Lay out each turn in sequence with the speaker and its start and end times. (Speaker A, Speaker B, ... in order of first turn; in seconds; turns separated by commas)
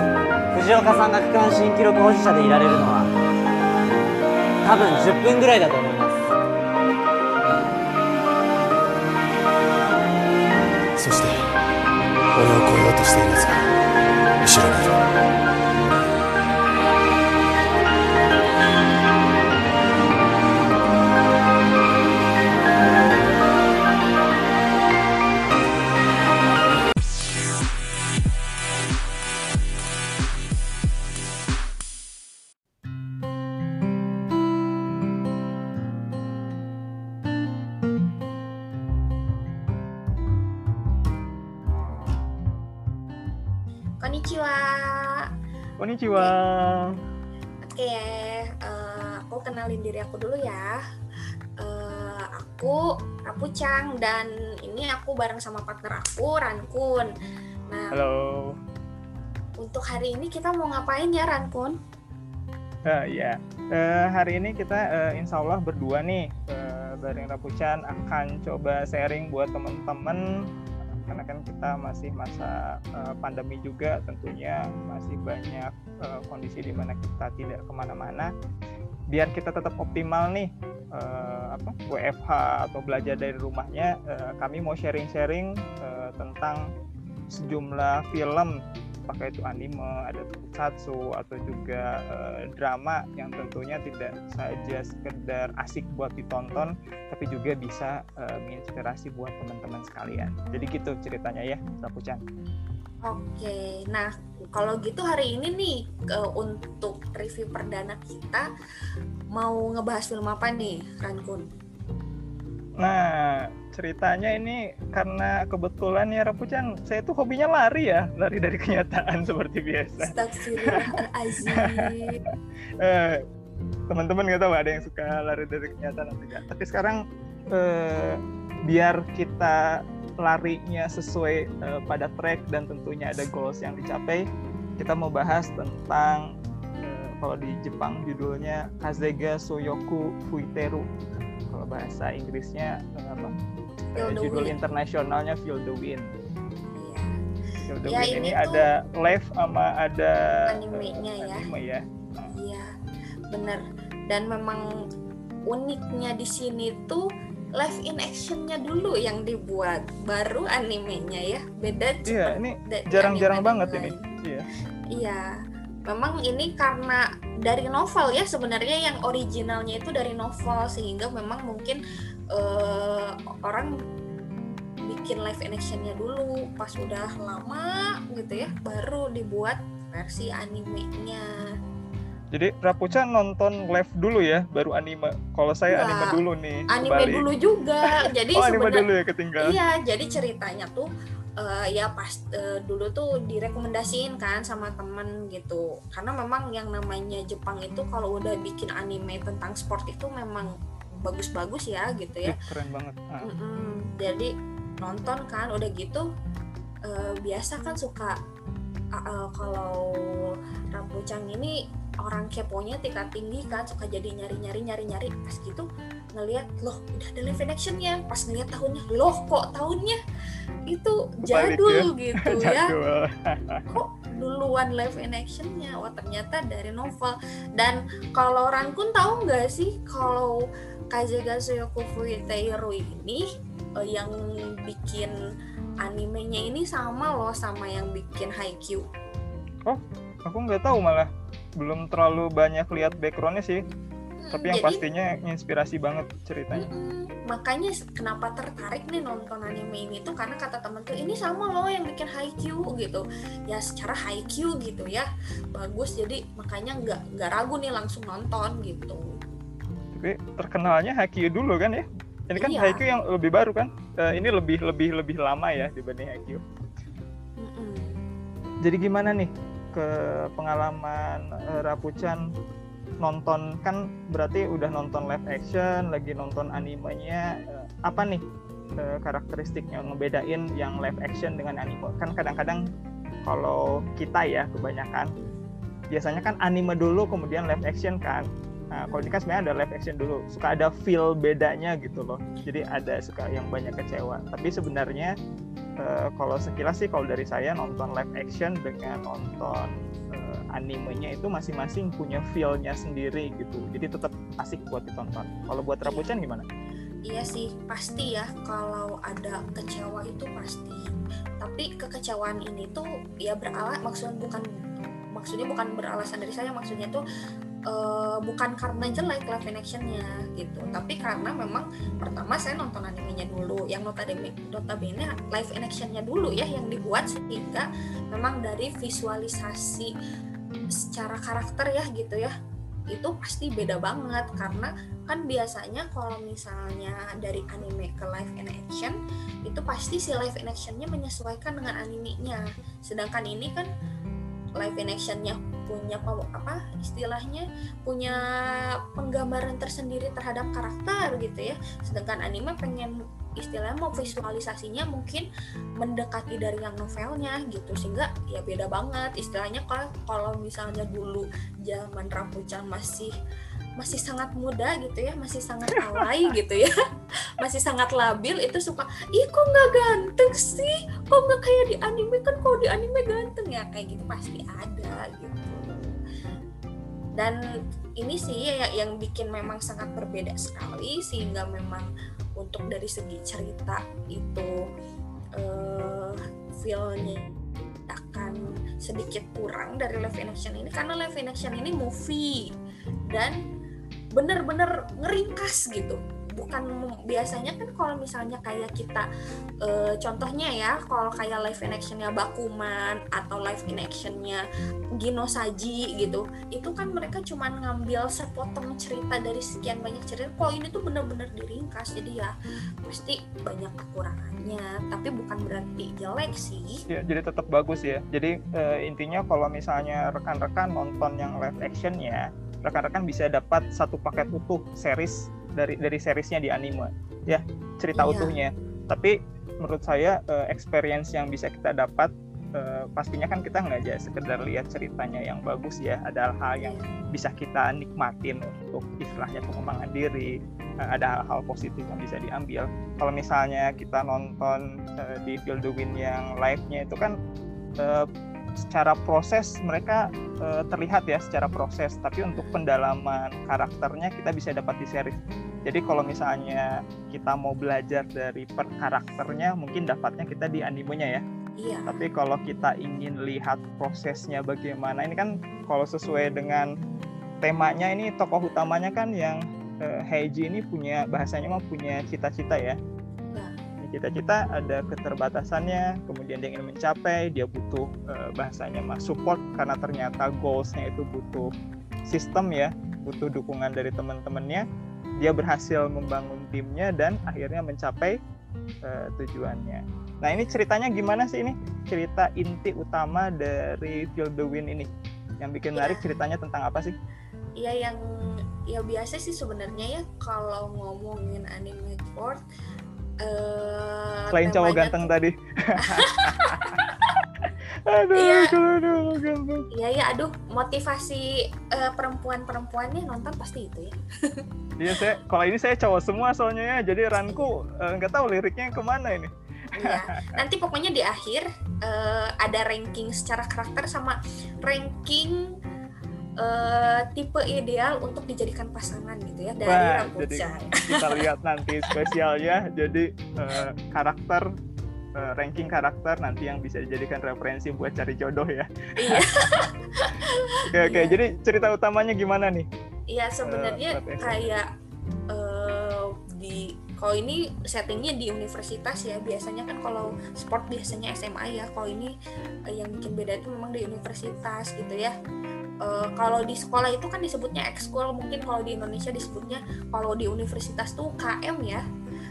Speaker A: 0.5-3.1, Speaker A: 4.6-6.2, Speaker B: 11.0-11.4, Speaker B: 12.3-13.7, Speaker B: 14.4-15.0, Speaker C: 44.0-45.3, Speaker D: 45.8-47.0, Speaker C: 47.6-50.8, Speaker C: 51.6-57.1, Speaker C: 57.7-58.0, Speaker D: 57.9-58.5, Speaker C: 59.6-61.7, Speaker D: 62.9-70.2, Speaker D: 71.1-78.3, Speaker D: 79.1-86.6, Speaker D: 87.3-88.5, Speaker D: 89.1-102.2, Speaker C: 103.0-108.5, Speaker C: 109.3-111.5, Speaker D: 112.8-120.8, Speaker C: 120.0-122.2, Speaker D: 121.5-123.2, Speaker D: 123.9-134.2, Speaker D: 134.8-140.9, Speaker D: 141.5-143.3, Speaker C: 143.9-144.5, Speaker D: 143.9-146.1, Speaker C: 146.8-147.1, Speaker D: 147.7-152.3, Speaker C: 147.9-148.7, Speaker C: 150.5-151.5, Speaker C: 152.3-152.7, Speaker C: 153.3-154.7, Speaker C: 155.5-157.0, Speaker C: 157.5-164.0, Speaker D: 162.1-164.4, Speaker C: 164.9-165.3, Speaker C: 165.9-171.8, Speaker C: 172.3-173.7, Speaker C: 174.9-181.5, Speaker D: 182.3-187.2, Speaker C: 185.7-186.2, Speaker C: 186.7-188.8, Speaker D: 188.0-189.6, Speaker C: 189.4-190.9, Speaker C: 191.4-202.4, Speaker D: 202.2-203.3, Speaker C: 203.2-206.1, Speaker C: 206.9-208.2, Speaker C: 208.9-220.0, Speaker C: 220.7-222.7, Speaker D: 221.3-223.8, Speaker C: 223.7-235.2, Speaker C: 235.8-238.8, Speaker D: 239.7-243.6, Speaker C: 244.2-244.8, Speaker D: 244.3-246.7, Speaker C: 246.5-259.0, Speaker D: 259.9-266.4, Speaker C: 262.4-262.8, Speaker C: 267.4-268.0, Speaker D: 268.6-272.2, Speaker D: 273.0-278.2, Speaker D: 278.8-282.6, Speaker D: 283.2-285.1, Speaker D: 285.9-295.1, Speaker C: 288.9-289.1, Speaker D: 295.8-306.4, Speaker C: 305.8-306.1, Speaker C: 307.1-310.9, Speaker C: 311.4-314.4, Speaker C: 315.1-317.0, Speaker C: 317.7-329.9, Speaker C: 330.8-332.3, Speaker C: 332.9-343.7, Speaker C: 344.6-355.2, Speaker C: 355.8-363.1, Speaker C: 363.8-366.7, Speaker D: 365.7-366.0, Speaker C: 367.4-376.0, Speaker C: 378.0-384.5, Speaker C: 385.4-392.5, Speaker C: 393.1-393.4, Speaker C: 394.1-399.1, Speaker C: 399.6-404.4, Speaker C: 405.0-412.3, Speaker C: 412.8-416.8, Speaker D: 416.9-447.1, Speaker C: 427.9-428.3, Speaker C: 436.6-436.8, Speaker D: 447.8-448.1, Speaker D: 448.6-461.2, Speaker C: 461.6-462.0, Speaker D: 461.9-466.7, Speaker D: 467.4-472.8, Speaker C: 473.3-473.5, Speaker D: 473.8-481.5, Speaker D: 482.1-484.6, Speaker D: 485.2-488.2, Speaker D: 488.8-496.9, Speaker C: 495.7-496.0, Speaker C: 497.6-498.0, Speaker C: 498.7-502.4, Speaker C: 503.2-505.1, Speaker D: 504.3-506.8, Speaker C: 505.8-507.1, Speaker D: 507.4-509.7, Speaker C: 508.1-508.5, Speaker C: 509.7-514.4, Speaker D: 514.8-520.4, Speaker C: 519.8-525.4, Speaker C: 526.4-531.2, Speaker D: 529.6-534.5, Speaker D: 535.1-539.3, Speaker C: 539.0-541.2, Speaker D: 540.7-542.7, Speaker C: 543.1-544.7, Speaker D: 543.4-544.5, Speaker C: 545.3-552.1, Speaker C: 552.7-555.1, Speaker C: 555.8-561.8